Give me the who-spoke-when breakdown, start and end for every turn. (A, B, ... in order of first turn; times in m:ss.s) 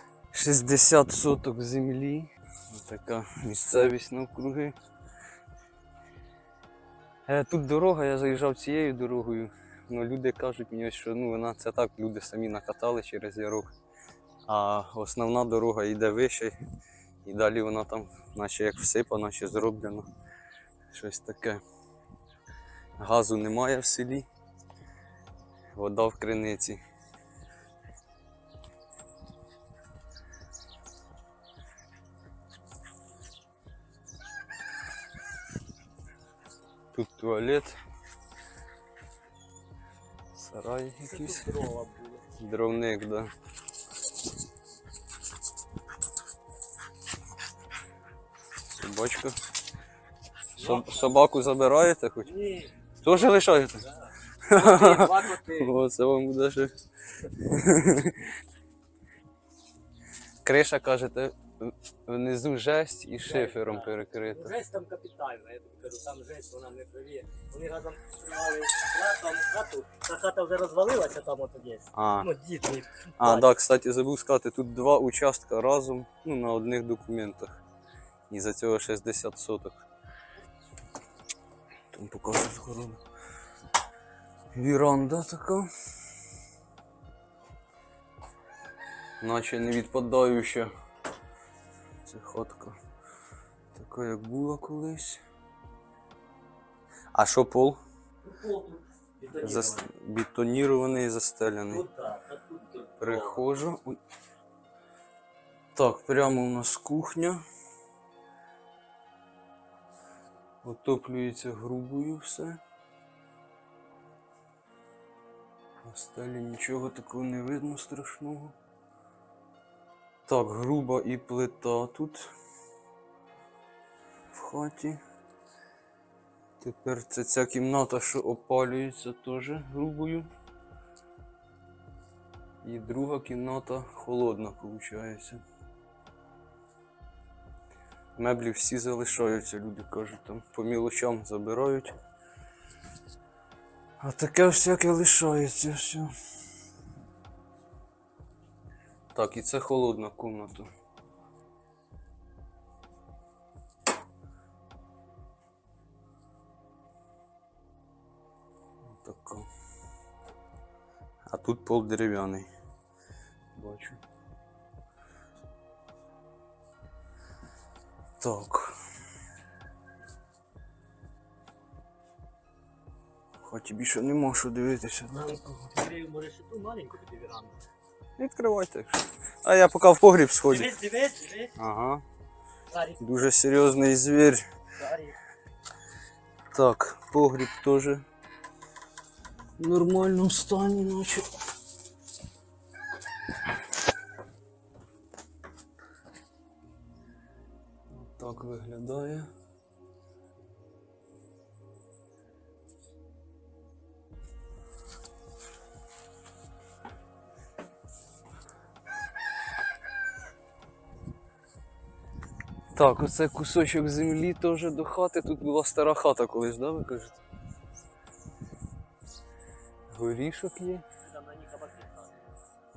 0:00.3-0:04.8 A
0:07.3-0:13.7 A
0:14.5-0:16.6 A
0:17.2-0:20.1 A
0:20.9-0:21.6 A
0:23.0-0:24.3 A
0:25.7-0:26.8 A
0:36.9-0:37.8 A
0:40.3-0:41.5 A
0:41.0-0:42.4 B
0:42.4-0:43.3 A
0:48.8-0:49.4 A
0:50.6-0:51.2 B
0:50.6-0:52.3 A
0:52.2-0:52.7 B
0:53.0-0:53.9 A
0:53.9-0:55.7 B
0:54.5-0:58.3 A
1:00.4-1:04.6 A
1:03.2-1:13.5 B
1:11.9-1:12.3 A
1:13.2-1:17.5 A
1:18.3-1:19.8 A
1:21.9-1:23.0 A
1:24.5-1:25.7 A
1:29.2-1:30.7 A
1:32.0-1:32.8 A
1:33.7-1:35.2 A
1:37.1-1:37.8 A
1:38.2-1:39.9 B
1:39.4-1:41.8 A
1:41.7-1:43.4 B
1:43.0-1:44.0 A
1:45.8-1:47.4 A
1:50.6-1:52.6 A
1:55.8-1:58.6 A
2:00.3-2:02.3 A
2:04.3-2:05.0 A
2:06.6-2:10.3 A
2:12.6-2:15.4 A
2:18.2-2:21.9 A
2:24.0-2:26.1 A
2:29.1-2:30.7 A
2:38.8-2:39.5 A
2:41.3-2:42.5 A
2:43.6-2:44.0 A
2:48.2-2:48.8 A
2:53.4-2:55.4 A
2:55.1-2:57.6 B
2:58.2-3:00.7 A
3:00.5-3:01.5 B
3:01.6-3:02.0 A
3:02.7-3:03.0 B
3:03.0-3:04.4 A
3:04.8-3:05.2 B
3:06.5-3:08.0 A
3:09.6-3:11.4 A
3:17.9-3:19.3 A
3:32.8-3:37.2 A
3:39.9-3:40.8 A
3:41.0-3:42.2 B